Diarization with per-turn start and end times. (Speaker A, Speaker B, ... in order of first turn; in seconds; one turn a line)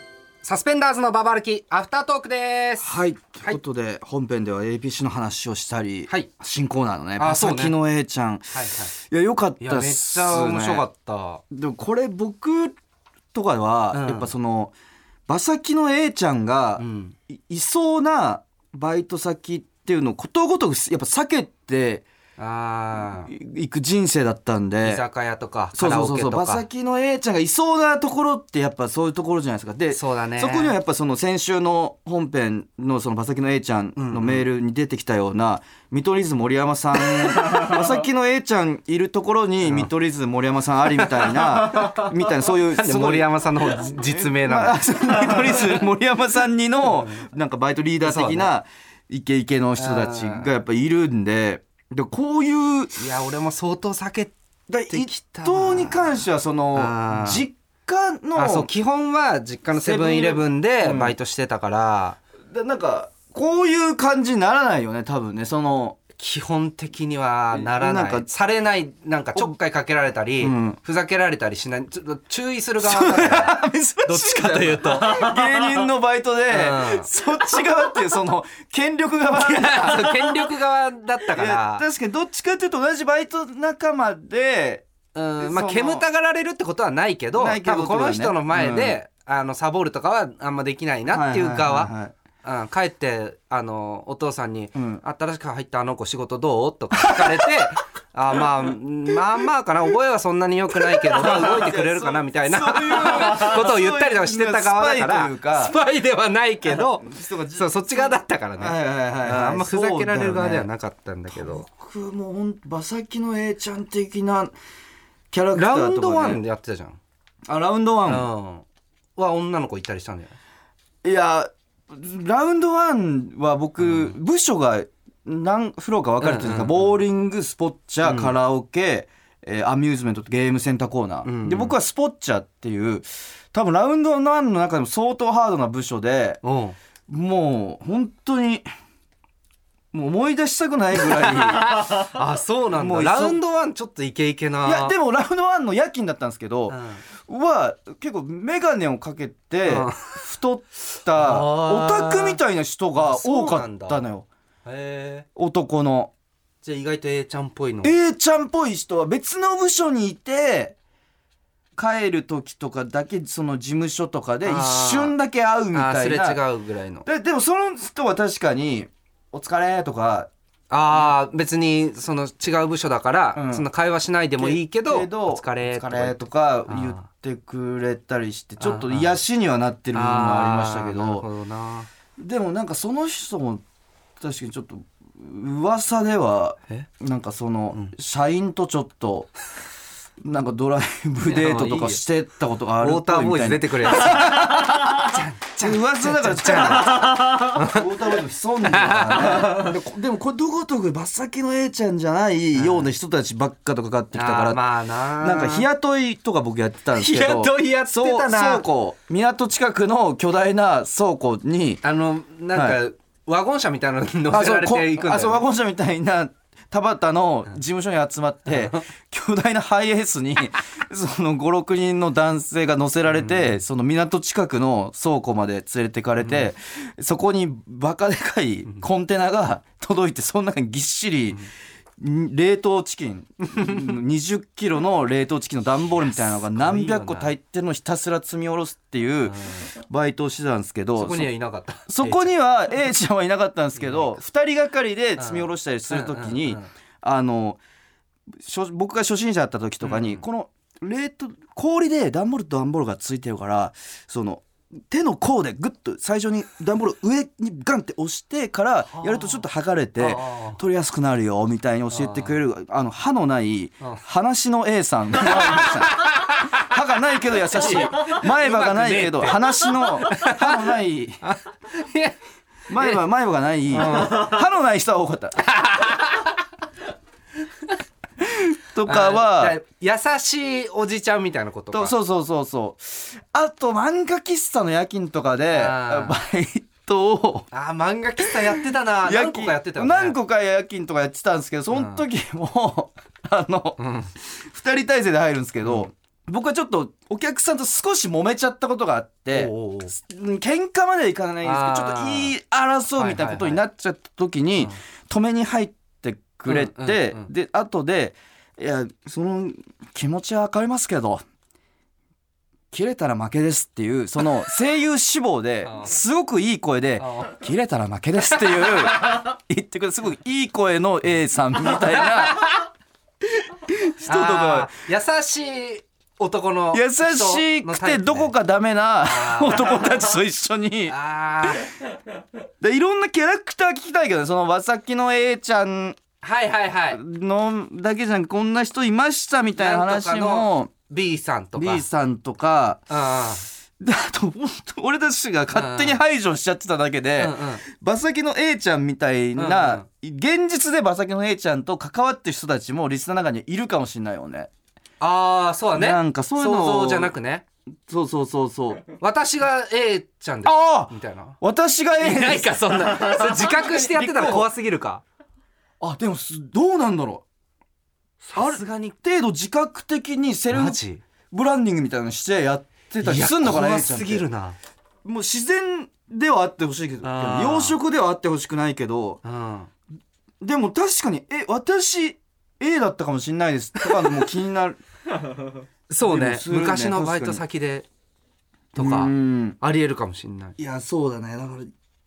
Speaker A: 0.4-3.6
Speaker B: 2.8-10.9
Speaker A: 7.2-7.8
Speaker A: 8.5-8.9
Speaker A: 9.6-11.4
Speaker B: 11.5-12.8
Speaker B: 13.3-14.8
Speaker A: 13.9-14.3
Speaker B: 15.3-22.1
Speaker A: 16.8-17.1
Speaker A: 22.4-23.3
Speaker B: 23.1-25.0
Speaker A: 24.8-26.6
Speaker B: 25.8-53.1
Speaker A: 29.9-30.8
Speaker A: 34.0-34.4
Speaker A: 37.3-37.7
Speaker A: 40.9-42.1
Speaker A: 42.6-45.8
Speaker A: 46.9-47.2
Speaker A: 48.0-48.5
Speaker A: 49.8-50.5
Speaker A: 53.0-54.3
Speaker B: 54.7-58.7
Speaker A: 54.9-56.2
Speaker A: 56.7-57.5
Speaker A: 58.4-62.2
Speaker B: 59.7-61.2
Speaker B: 62.5-66.0
Speaker A: 66.2-75.4
Speaker B: 67.5-68.3
Speaker B: 70.4-70.8
Speaker B: 72.8-80.5
Speaker A: 76.5-77.1
Speaker A: 79.3-81.8
Speaker B: 81.3-84.9
Speaker A: 85.1-111.7
Speaker B: 85.4-86.1
Speaker B: 87.4-89.0
Speaker B: 91.1-92.1
Speaker B: 94.8-95.0
Speaker B: 96.9-97.7
Speaker B: 98.3-99.4
Speaker B: 100.9-105.7
Speaker B: 106.7-110.7
Speaker B: 111.3-114.5
Speaker B: 115.3-116.4
Speaker A: 115.5-117.0
Speaker B: 117.5-118.3
Speaker A: 118.1-118.7
Speaker A: 119.2-120.3
Speaker B: 121.0-136.4
Speaker A: 123.8-124.2
Speaker A: 126.2-127.0
Speaker A: 128.0-128.3
Speaker A: 131.2-131.7
Speaker A: 136.4-136.8
Speaker B: 137.1-138.7
Speaker B: 139.9-142.2
Speaker A: 141.1-144.9
Speaker B: 142.7-143.4
Speaker B: 144.6-154.3
Speaker A: 146.7-147.0
Speaker A: 149.7-150.2
Speaker A: 151.2-152.4
Speaker A: 153.0-154.1
Speaker A: 154.7-155.2
Speaker B: 155.4-156.1
Speaker A: 156.6-158.0
Speaker B: 157.8-160.8
Speaker B: 161.8-166.4
Speaker A: 164.4-165.1
Speaker A: 165.7-167.1
Speaker B: 167.1-170.3
Speaker A: 170.7-177.0
Speaker B: 170.9-171.2
Speaker B: 173.3-173.7
Speaker B: 174.4-181.3
Speaker A: 178.6-179.2
Speaker A: 179.9-181.9
Speaker B: 182.2-183.6
Speaker B: 184.2-189.3
Speaker B: 190.2-211.8
Speaker A: 191.2-192.0
Speaker A: 192.8-197.9
Speaker A: 198.6-199.8
Speaker A: 202.6-202.9
Speaker A: 204.1-205.7
Speaker A: 206.9-208.7
Speaker A: 211.8-215.5
Speaker B: 212.5-212.8
Speaker B: 214.3-231.5
Speaker A: 218.5-218.8
Speaker A: 223.1-223.5
Speaker A: 226.2-226.5
Speaker B: 232.0-241.3
Speaker A: 236.1-237.3
Speaker A: 239.2-239.7
Speaker A: 241.0-242.3
Speaker B: 241.9-247.6
Speaker A: 243.8-244.1
Speaker A: 245.2-246.7
Speaker B: 248.4-271.2
Speaker A: 249.8-250.2
Speaker A: 258.9-259.4
Speaker A: 260.0-260.6
Speaker A: 261.9-262.4
Speaker A: 265.2-266.7
Speaker A: 267.5-270.6
Speaker A: 271.2-272.2
Speaker B: 272.7-275.4
Speaker A: 272.7-273.0
Speaker A: 273.7-274.4
Speaker A: 275.4-276.4
Speaker B: 278.2-279.6
Speaker A: 278.9-282.0
Speaker B: 281.7-287.5
Speaker A: 285.5-286.2
Speaker A: 287.5-290.2
Speaker B: 288.2-311.2
Speaker A: 291.7-292.0
Speaker A: 293.8-294.1
Speaker A: 295.6-295.9
Speaker A: 299.3-299.9
Speaker A: 301.4-302.3
Speaker A: 302.9-303.6
Speaker A: 306.5-307.3
Speaker B: 312.7-322.5
Speaker A: 315.6-315.9
Speaker A: 317.0-317.4
Speaker A: 318.4-319.2
Speaker A: 321.6-322.7
Speaker B: 323.7-324.7
Speaker A: 324.1-328.3
Speaker B: 326.7-330.9
Speaker A: 329.0-330.1
Speaker A: 330.9-331.7
Speaker B: 332.6-336.0
Speaker A: 336.2-337.0
Speaker B: 336.9-340.7
Speaker A: 339.6-341.9
Speaker B: 341.6-342.8
Speaker A: 342.9-343.5
Speaker B: 343.8-354.5
Speaker A: 345.5-346.0
Speaker A: 347.2-347.6
Speaker A: 349.4-349.9
Speaker A: 355.0-357.4
Speaker B: 355.7-357.1
Speaker B: 357.9-358.8
Speaker A: 359.0-361.4
Speaker B: 360.4-364.5
Speaker A: 362.0-365.0
Speaker B: 365.8-367.2
Speaker A: 368.2-368.9
Speaker B: 368.4-374.3
Speaker A: 370.5-371.0
Speaker A: 373.0-374.6
Speaker B: 375.0-379.2
Speaker A: 377.0-377.8
Speaker A: 379.2-379.7
Speaker B: 380.4-384.8
Speaker A: 385.9-387.9
Speaker B: 386.0-387.4
Speaker A: 388.8-390.6
Speaker B: 388.8-389.6
Speaker B: 390.6-391.7